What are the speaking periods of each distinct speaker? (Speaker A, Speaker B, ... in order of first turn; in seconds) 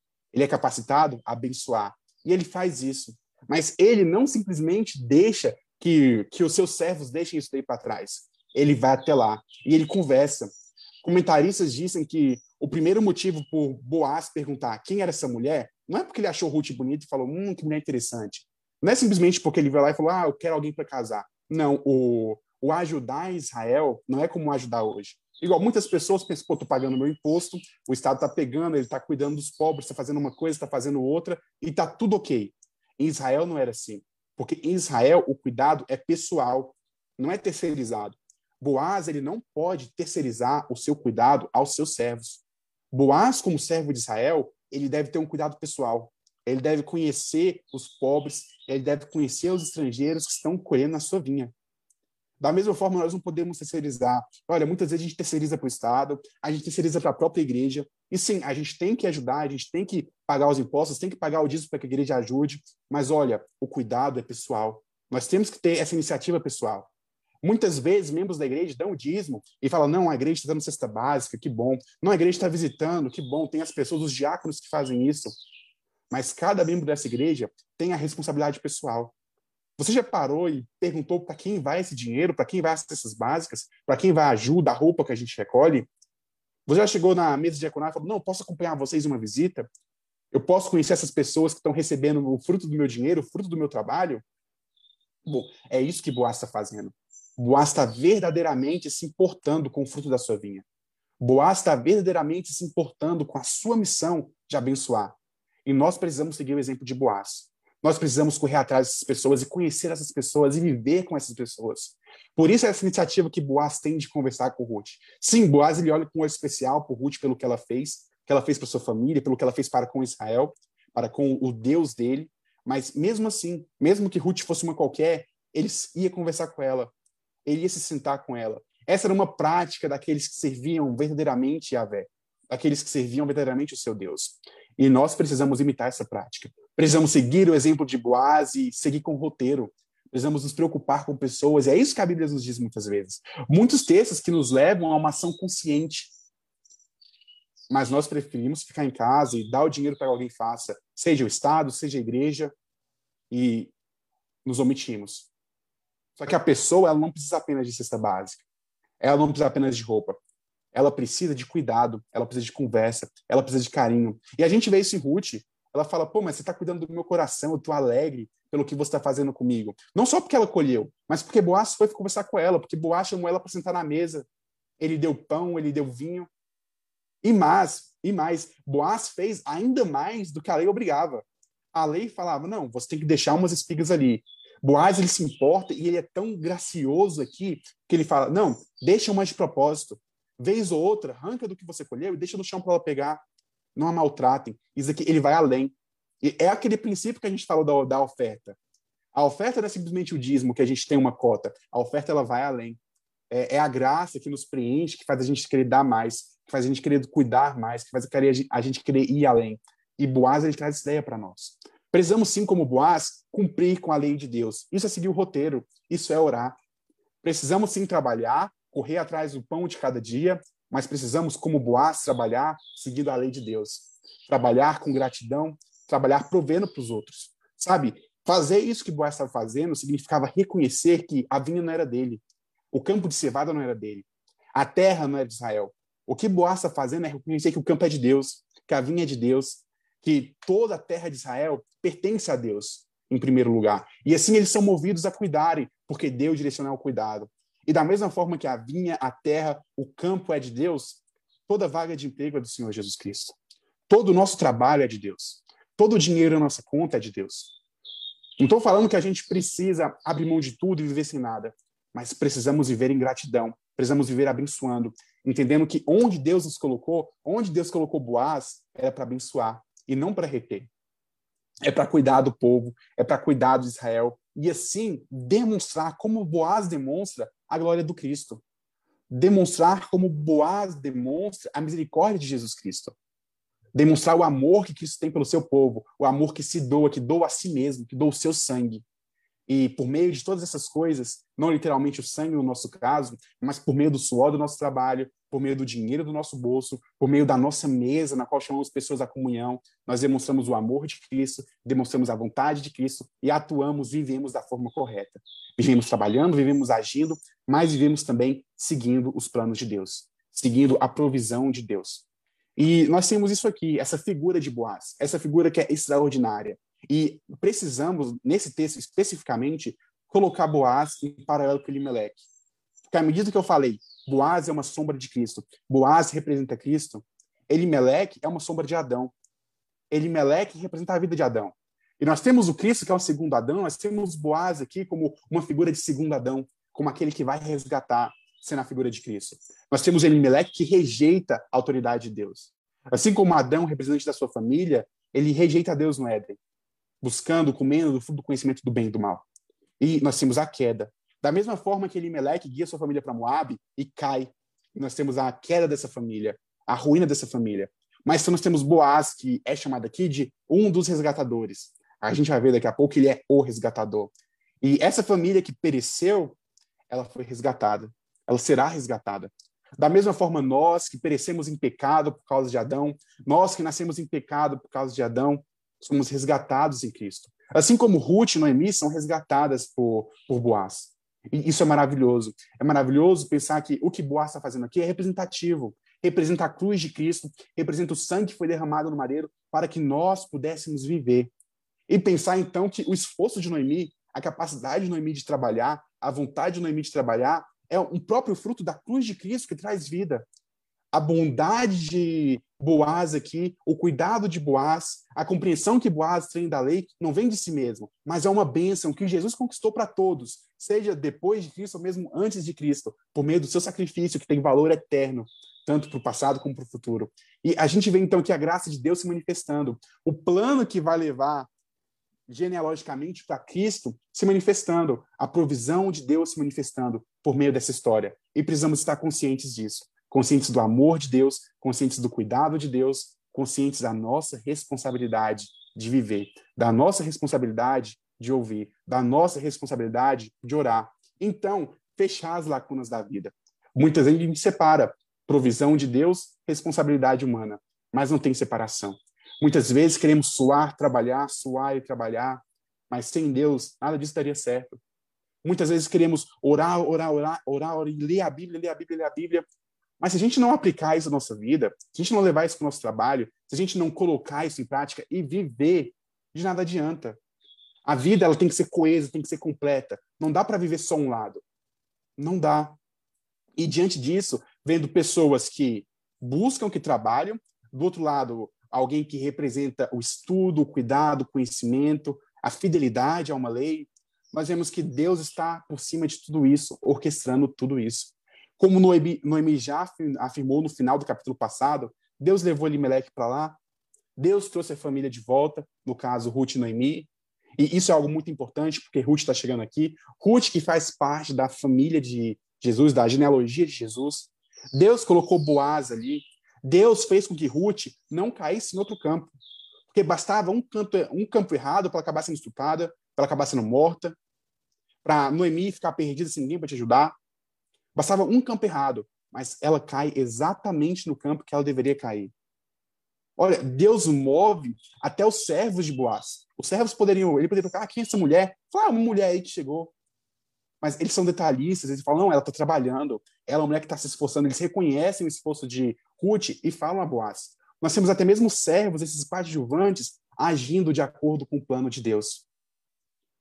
Speaker A: 0.3-51.5, 52.4-66.9, 67.4-75.3, 76.1-79.1, 79.8-85.9, 86.7-89.7, 90.3-94.2, 95.3-100.6, 101.2-126.9, 127.5-146.1, 147.7-152.5, 153.3-153.7, 154.4-155.3, 156.2-158.4, 159.0-160.2, 160.7-174.3, 174.8-176.3, 177.2-193.2, 193.8-198.6, 199.1-202.8, 203.3-216.6, 217.2-253.4, 253.9-257.6, 258.4-270.7, 271.6-278.4, 279.1-282.9, 283.8-288.8, 289.5-312.1, 312.6-322.3, 322.9-329.1, 329.9-346.4, 347.0-349.2, 349.8-366.4, 366.9-391.3, 391.9-400.2, 400.9-421.5, 422.3-454.8, 455.4-459.5, 460.0-467.2, 467.9-471.4, 472.2-472.8, 473.6-493.6, 494.2-509.3, 509.9-514.1, 515.0-517.1, 517.9-522.3, 523.4-529.9, 530.8-542.4